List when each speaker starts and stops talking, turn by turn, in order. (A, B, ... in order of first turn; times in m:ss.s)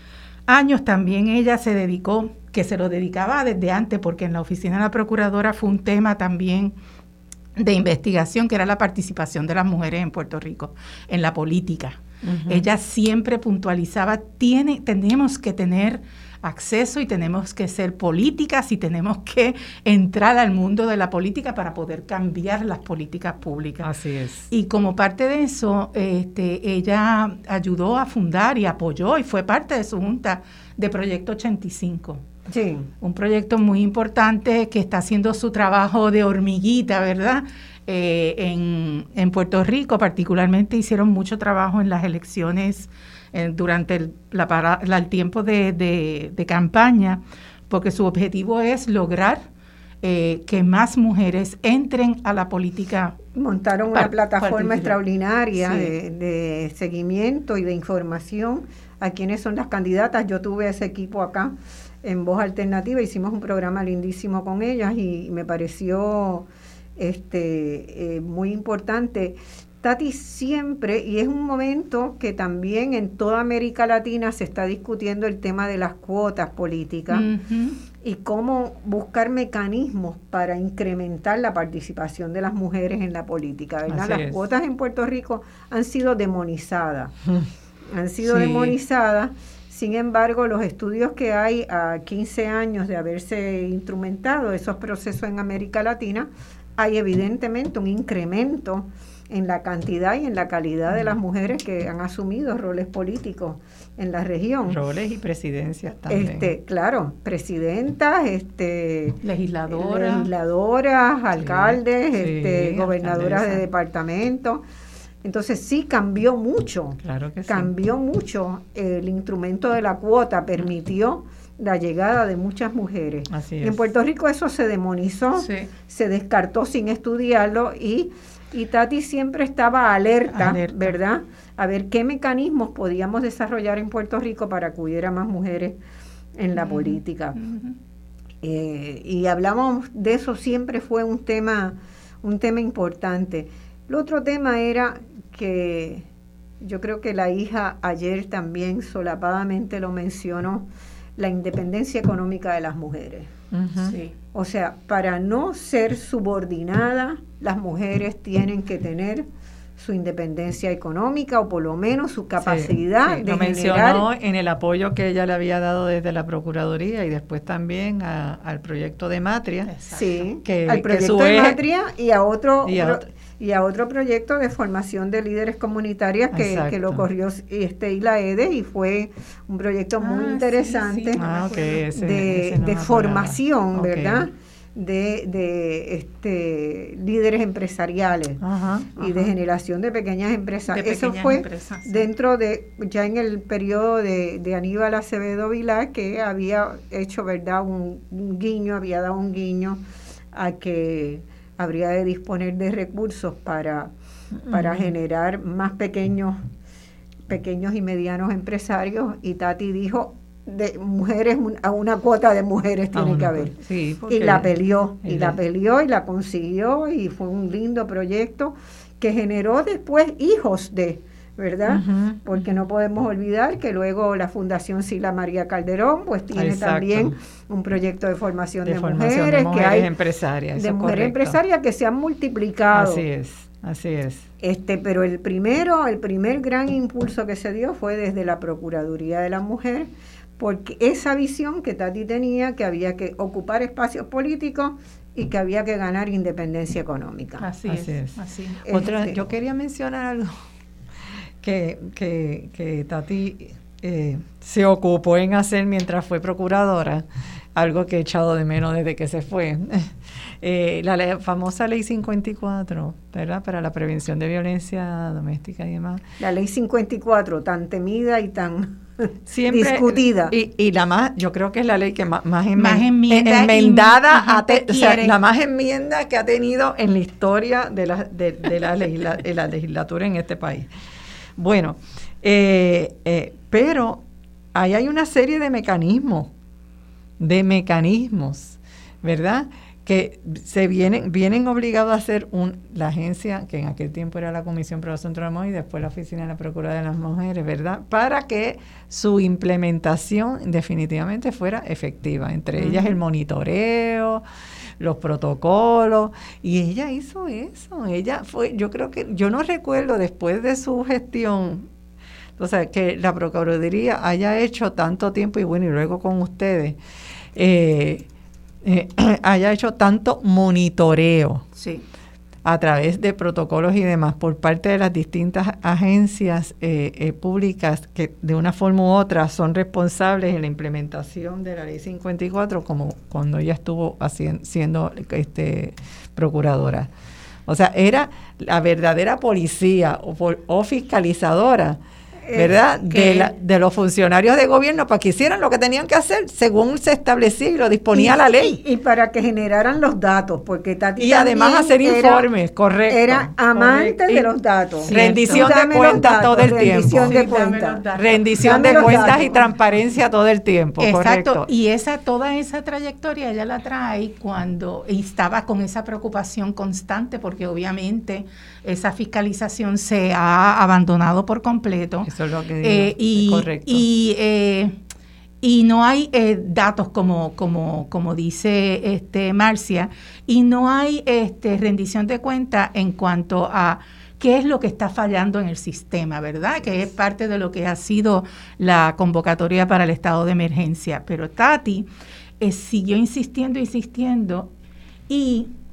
0:00.5-0:06.7 A
0:07.6-0:23.9 A
0:12.2-0:12.6 B
0:23.8-0:24.5 B
0:24.5-0:32.2 A
0:32.5-0:32.9 C
0:33.0-0:49.4 A
0:50.0-0:53.2 A
0:53.4-1:17.3 C
0:53.9-0:55.0 A
0:55.5-0:55.9 A
1:17.1-1:17.8 A
1:18.0-1:27.2 C
1:23.9-1:24.4 B
1:27.9-1:44.8 C
1:28.2-1:28.8 B
1:44.7-1:46.5 B
1:46.1-1:54.6 C
1:49.2-1:50.3 A
1:51.3-1:53.7 B
1:55.2-2:15.8 C
1:57.0-1:57.7 B
2:03.3-2:03.8 B
2:05.4-2:05.7 A
2:10.3-2:10.9 A
2:16.4-2:17.4 C
2:16.6-2:17.8 A
2:18.4-2:26.1 C
2:26.6-2:33.3 C
2:33.5-2:34.0 B
2:33.8-2:34.1 A
2:34.3-2:44.1 C
2:42.4-2:49.7 B
2:49.7-2:50.3 A
2:49.9-3:01.2 C
2:50.4-2:51.6 B
2:52.6-2:53.0 B
2:56.3-2:57.0 B
3:00.0-3:01.8 A
3:01.2-3:04.3 B
3:01.9-3:08.4 C
3:08.4-3:09.1 B
3:09.0-3:19.8 C
3:10.7-3:12.1 A
3:20.3-3:23.9 C
3:24.4-3:24.9 B
3:24.5-3:26.4 C
3:27.3-3:49.9 C
3:32.9-3:35.4 B
3:41.7-3:42.2 B
3:46.4-3:47.2 B
3:48.6-3:51.4 B
3:50.6-3:53.0 C
3:52.7-3:54.3 B
3:54.4-4:07.5 C
4:07.4-4:08.6 A
4:07.7-4:08.2 B
4:08.6-4:09.2 C
4:08.7-4:10.4 B
4:11.4-4:26.0 B
4:26.2-4:30.4 C
4:29.3-4:40.7 B
4:32.6-4:35.2 A
4:41.4-4:44.0 B
4:44.5-4:46.3 B
4:47.2-5:04.2 B
5:04.8-5:11.7 B
5:12.4-5:16.8 B
5:17.4-5:18.1 B
5:18.6-5:21.5 B
5:21.6-5:21.8 A
5:22.4-5:36.9 B
5:37.5-5:41.8 B
5:42.2-5:42.6 C
5:42.3-5:48.6 B
5:42.9-5:43.3 A
5:47.9-5:52.3 C
5:51.0-5:54.3 B
5:52.9-5:57.8 C
5:54.9-5:59.5 A
5:54.9-5:57.2 B
5:58.0-6:01.5 B
5:58.4-5:59.3 C
6:00.8-6:12.1 A
6:12.0-6:13.8 B
6:12.6-6:14.8 A
6:15.4-6:31.9 A
6:32.4-6:34.5 A
6:35.1-6:35.5 A